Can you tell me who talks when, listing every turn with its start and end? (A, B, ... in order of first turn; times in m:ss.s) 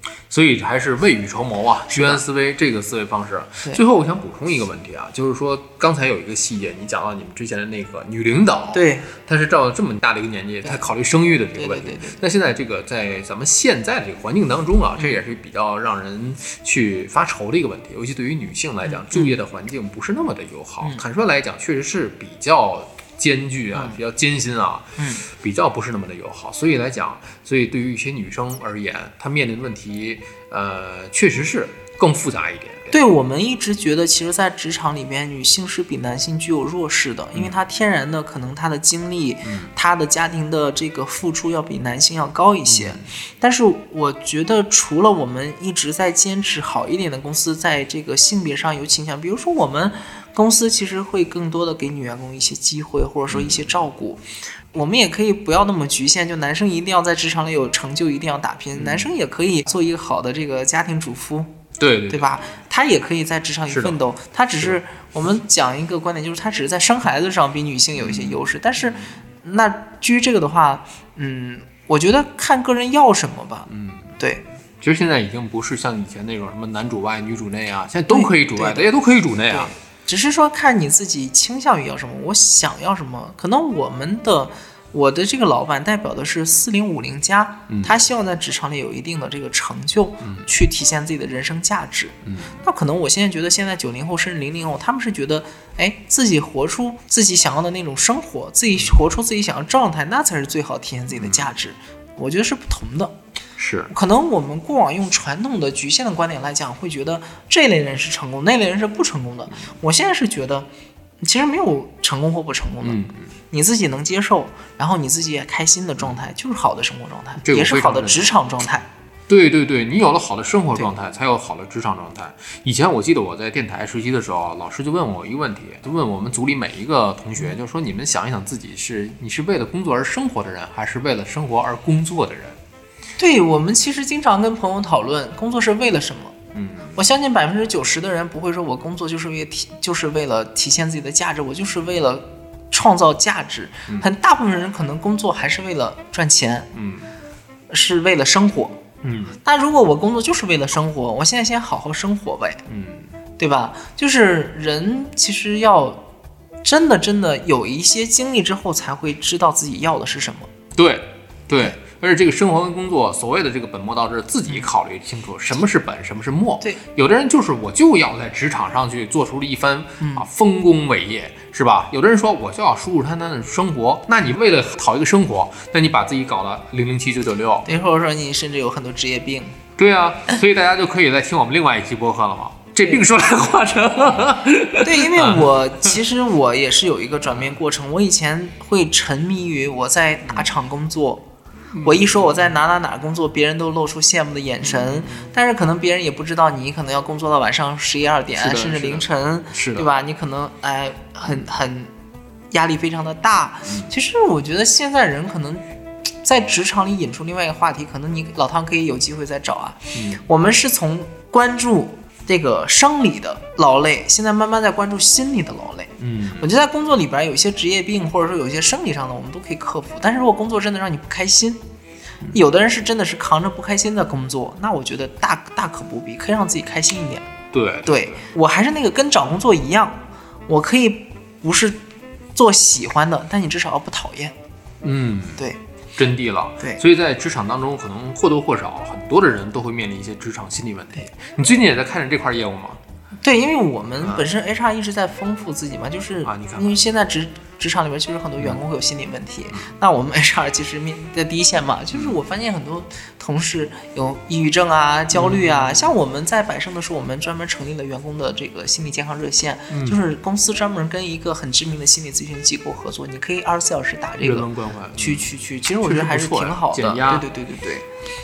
0:00.3-0:32.9 A
0:01.9-0:02.2 B
0:08.7-0:09.1 B
0:11.6-0:12.2 B
0:18.8-0:19.3 B
0:25.0-0:25.2 B
0:32.9-0:54.2 B
0:39.4-0:39.7 A
0:42.7-0:43.1 A
0:53.3-0:53.7 A
0:54.7-1:01.6 B
0:58.7-0:59.1 A
1:01.8-1:02.4 A
1:02.1-1:14.4 B
1:03.7-1:04.0 A
1:08.0-1:09.1 A
1:13.7-1:14.2 A
1:14.8-1:19.7 A
1:18.1-1:18.9 B
1:19.5-1:43.1 B
1:27.7-1:28.0 A
1:30.2-1:30.5 A
1:32.2-1:32.6 A
1:41.2-1:41.5 A
1:43.6-1:43.9 A
1:43.9-1:50.7 B
1:51.2-1:58.9 B
1:52.8-1:53.3 A
1:57.4-1:58.3 A
1:59.3-2:12.6 A
2:13.2-2:16.4 B
2:16.5-2:17.0 A
2:17.0-2:26.7 B
2:26.7-2:27.1 A
2:27.7-2:28.8 B
2:29.0-2:29.4 A
2:29.4-2:32.6 B
2:32.7-2:33.1 A
2:33.4-2:36.0 B
2:36.6-2:40.5 B
2:40.7-2:57.7 A
2:50.0-2:50.2 B
2:57.6-2:59.6 B
2:59.8-3:05.6 A
3:04.8-3:11.2 B
3:07.3-3:07.6 A
3:11.7-3:12.5 A
3:11.8-3:21.9 B
3:14.6-3:15.3 A
3:18.4-3:19.9 A
3:22.5-3:25.6 B
3:26.2-3:41.6 B
3:29.9-3:30.2 A
3:36.0-3:36.5 A
3:42.3-3:47.3 B
3:47.5-3:48.2 A
3:47.8-3:51.8 B
3:52.3-3:54.3 B
3:54.8-3:55.4 A
3:56.0-4:02.8 A
4:03.2-4:27.8 B
4:06.2-4:06.8 A
4:11.9-4:12.2 A
4:15.1-4:15.9 A
4:19.7-4:20.0 A
4:24.2-4:27.3 A